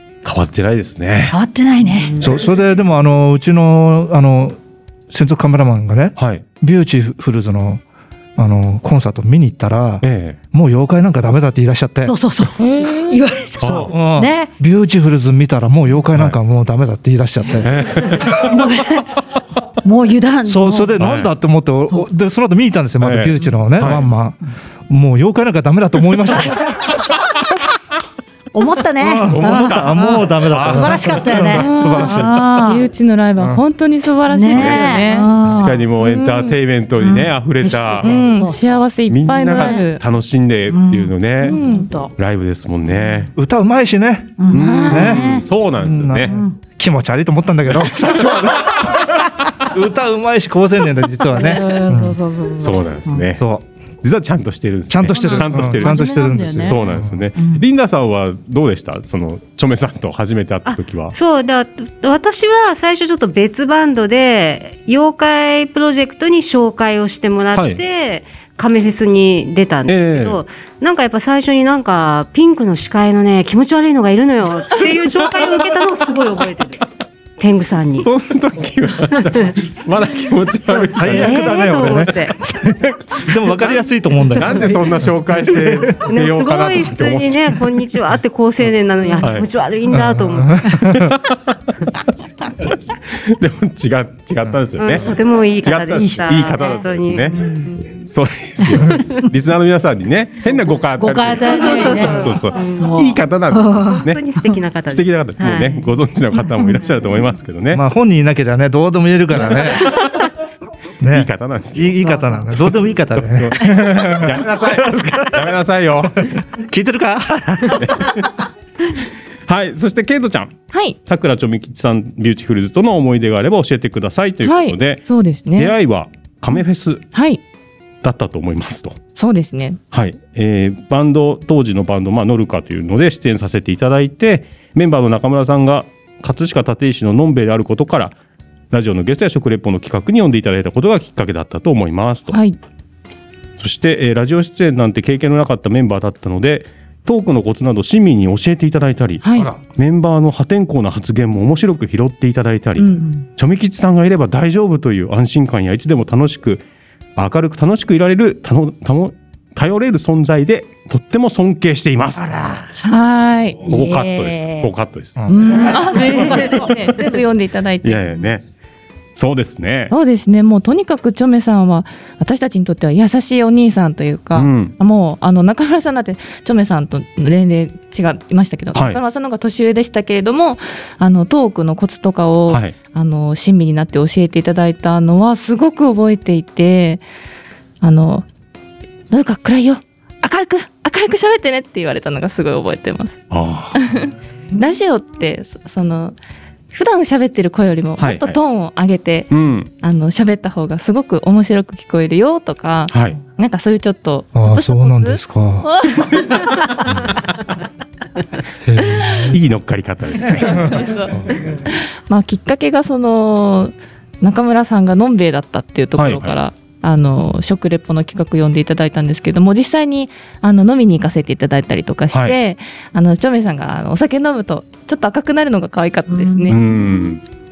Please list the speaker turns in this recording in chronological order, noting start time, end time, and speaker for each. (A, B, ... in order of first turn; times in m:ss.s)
0:00.2-0:01.4 A
0:01.3-0:02.3 B
0:02.2-0:04.6 C
0:05.1-0:07.8 C
0:06.2-0:06.4 A
0:08.4-0:12.2 C
0:10.0-0:10.4 A
0:12.0-0:14.5 B
0:12.6-0:13.2 D
0:13.6-0:13.9 A
0:13.6-0:17.7 C
0:17.6-0:18.6 A
0:18.2-0:19.2 B
0:19.8-0:21.0 B
0:20.5-0:26.9 C
0:21.0-0:21.3 A
0:23.0-0:24.1 A
0:28.5-0:32.9 B
0:29.0-0:32.4 C
0:29.3-0:32.4 A
0:31.6-0:35.3 D
0:34.3-0:35.9 B
0:34.5-0:38.3 A
0:36.0-0:36.6 D
0:37.0-0:38.7 B
0:38.0-0:40.0 D
0:39.1-0:41.6 A
0:39.5-0:39.8 B
0:40.7-0:42.1 B
0:41.4-0:41.9 D
0:42.2-0:43.3 A
0:42.9-0:43.3 B
0:43.4-0:52.2 C
0:44.4-0:45.5 B
0:44.5-0:46.3 A
0:46.2-0:46.6 B
0:47.8-0:48.2 A
0:51.3-0:53.2 B
0:52.6-0:53.4 A
0:53.3-0:53.6 C
0:54.0-1:01.2 A
0:54.9-0:57.2 C
0:55.2-0:56.8 B
0:57.4-0:57.6 B
1:00.7-1:16.8 E
1:07.5-1:07.8 A
1:09.9-1:10.4 A
1:17.4-1:18.1 E
1:18.0-1:22.0 A
1:20.7-1:22.4 E
1:20.9-1:26.0 C
1:23.2-1:23.7 A
1:24.3-1:27.6 A
1:26.0-1:30.9 E
1:29.2-1:29.5 A
1:29.9-1:31.2 C
1:30.9-1:31.5 A
1:33.1-1:37.6 A
1:34.8-1:37.9 E
1:36.0-1:36.7 B
1:37.3-1:37.7 B
1:38.1-1:44.2 A
1:41.0-1:44.6 B
1:41.4-1:42.9 E
1:43.8-1:45.9 E
1:44.9-1:47.8 A
1:47.7-1:50.0 C
1:51.0-1:55.2 C
1:51.1-1:52.1 A
1:53.2-1:56.3 A
1:56.3-1:58.2 C
1:57.7-1:58.3 A
1:59.5-2:07.1 A
2:00.7-2:01.0 D
2:04.4-2:05.8 D
2:07.1-2:07.4 D
2:08.0-2:09.0 A
2:09.2-2:09.8 D
2:09.9-2:18.2 A
2:18.7-2:22.4 A
2:22.3-2:22.6 D
2:23.6-2:36.6 A
2:29.2-2:29.5 D
2:32.8-2:33.0 D
2:33.0-2:33.2 B
2:37.2-2:42.3 A
2:42.2-2:42.8 B
2:42.8-2:43.6 D
2:43.6-2:44.7 B
2:43.7-2:45.2 A
2:45.2-2:45.6 C
2:45.3-2:48.3 D
2:45.4-2:47.1 B
2:47.8-2:48.4 A
2:49.2-2:49.9 A
2:49.9-3:07.0 D
2:54.3-2:54.8 A
2:58.7-2:59.0 A
3:02.5-3:02.8 A
3:07.8-3:08.3 D
3:09.1-3:13.2 D
3:13.3-3:13.8 A
3:13.8-3:16.2 D
3:16.7-3:26.7 D
3:18.0-3:18.4 A
3:19.3-3:19.7 A
3:22.9-3:23.2 A
3:24.3-3:25.7 C
3:28.6-3:29.4 C
3:29.3-3:30.8 A
3:30.2-3:46.6 D
3:36.0-3:36.4 A
3:46.1-3:46.6 B
3:46.5-3:47.2 A